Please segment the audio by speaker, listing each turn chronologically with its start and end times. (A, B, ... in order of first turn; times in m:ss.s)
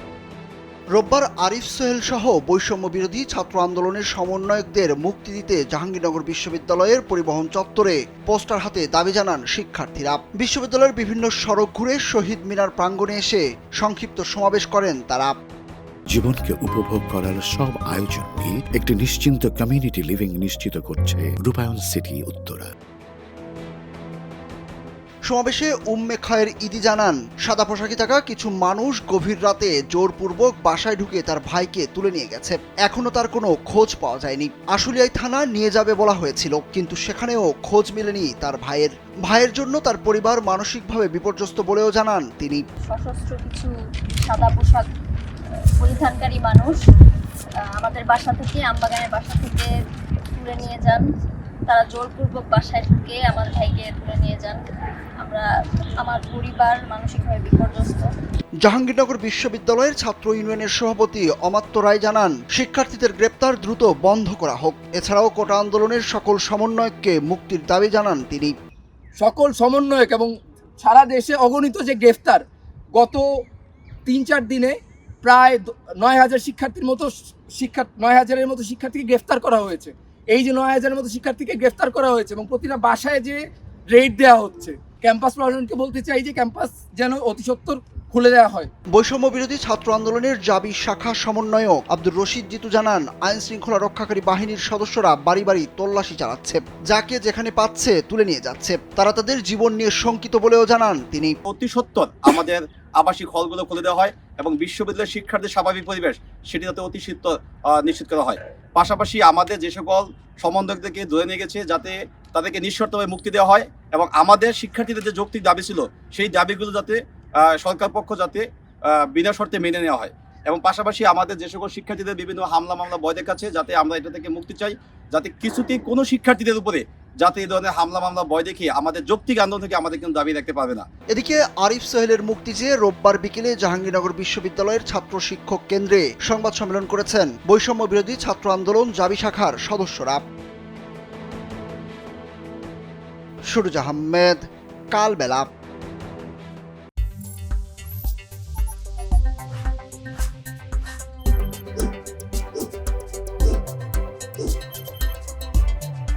0:01.0-0:15.4 A
0:16.1-0:22.7 B
0:25.3-0:42.6 A
0:42.9-0:44.8 C
0:45.8-0:46.8 C
0:47.8-0:49.7 C
0:50.3-0:51.0 C
0:51.7-0:54.6 C
0:55.2-0:55.5 C
0:56.0-0:58.1 C
0:58.6-1:08.5 A
1:09.2-1:12.4 D
1:13.0-1:13.2 D
1:14.1-1:23.4 D
1:23.9-1:28.7 D
1:28.9-1:41.3 A
1:41.5-2:10.9 E
2:11.1-2:20.2 A
2:23.5-2:25.5 A